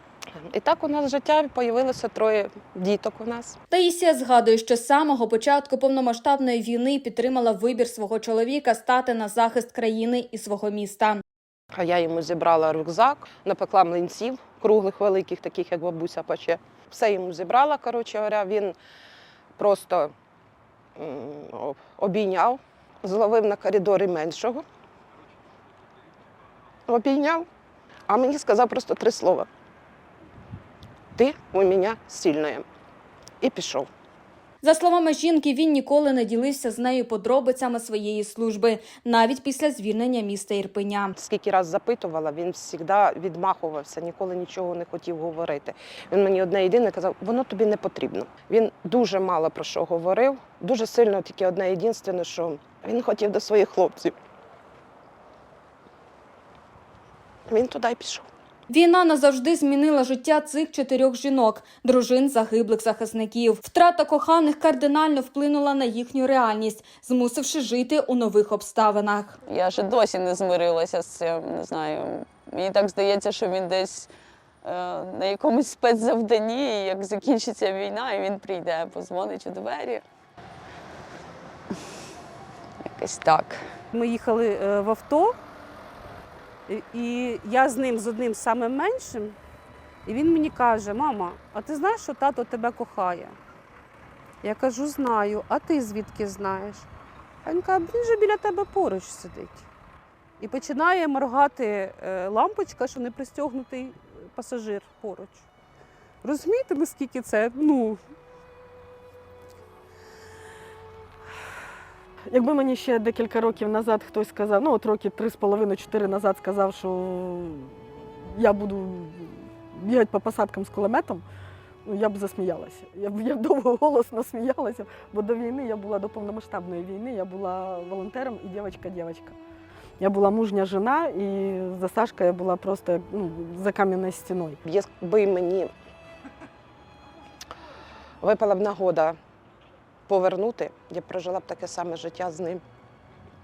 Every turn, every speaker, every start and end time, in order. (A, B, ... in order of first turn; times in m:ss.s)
0:00.4-0:03.6 A
0:03.7-0:11.2 B
0:11.7-0:18.8 A
0:19.6-0:20.1 A
0:21.0-0:24.6 A
0:26.9-0:27.5 A
0:28.1-0:29.5 A
0:31.2-0:32.7 A
0:33.4-0:33.9 A
0:34.6-0:41.2 B
0:41.2-0:54.2 A
0:57.5-0:58.3 A
0:58.7-1:09.4 B
1:09.5-1:14.1 C
1:14.6-1:20.0 C
1:22.9-1:23.6 C
1:23.9-1:25.4 D
1:26.7-1:29.4 D
1:30.1-1:33.4 D
1:34.4-1:36.9 D
1:37.4-1:39.7 D
1:40.4-1:45.4 D
1:46.2-1:48.0 D
1:52.3-1:57.7 E
1:58.3-2:01.2 E
2:01.9-2:09.4 E
2:10.0-2:14.6 E
2:14.7-2:15.7 A
2:18.2-2:19.2 A
2:20.1-2:22.6 A